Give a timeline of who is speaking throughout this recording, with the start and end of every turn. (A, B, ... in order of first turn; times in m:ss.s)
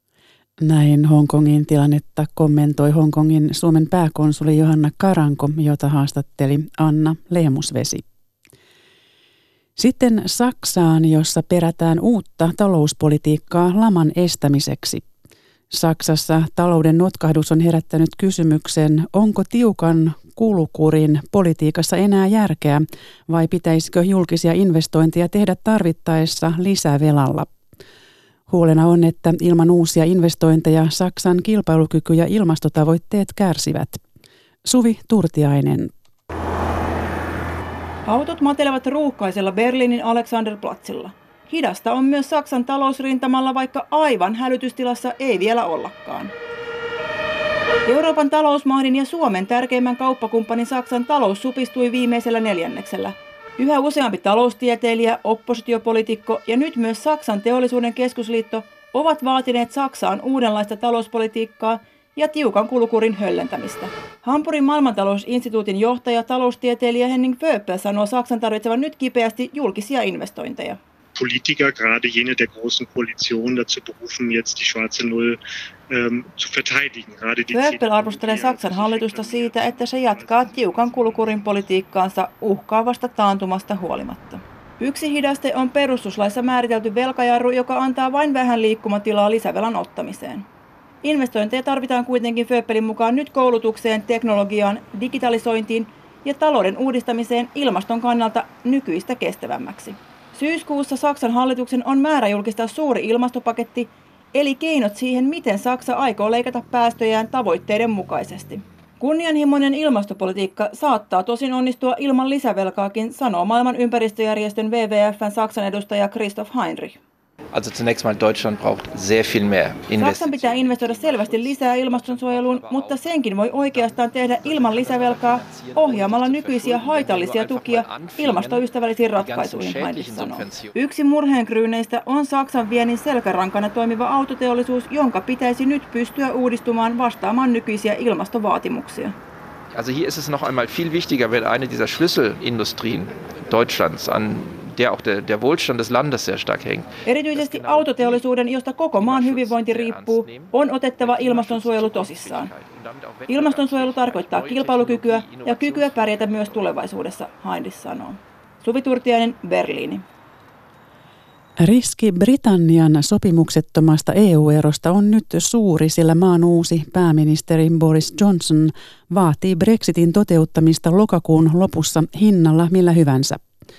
0:00.6-0:08.0 A
0:09.8-0:15.0 A
0:15.7-0:27.5 A
0:28.5-0:34.0 A
0:34.6-0:35.9 A
0:38.0-0:46.3 B
0:47.8-1:10.8 B
1:11.2-1:20.9 C
1:17.5-1:30.4 B
1:31.0-1:57.0 B
1:57.5-2:03.1 D
1:59.9-2:19.1 B
2:03.7-2:10.8 D
2:19.7-2:28.2 D
2:27.0-2:32.5 B
2:28.9-2:36.7 D
2:33.3-2:40.0 B
2:41.6-2:53.4 A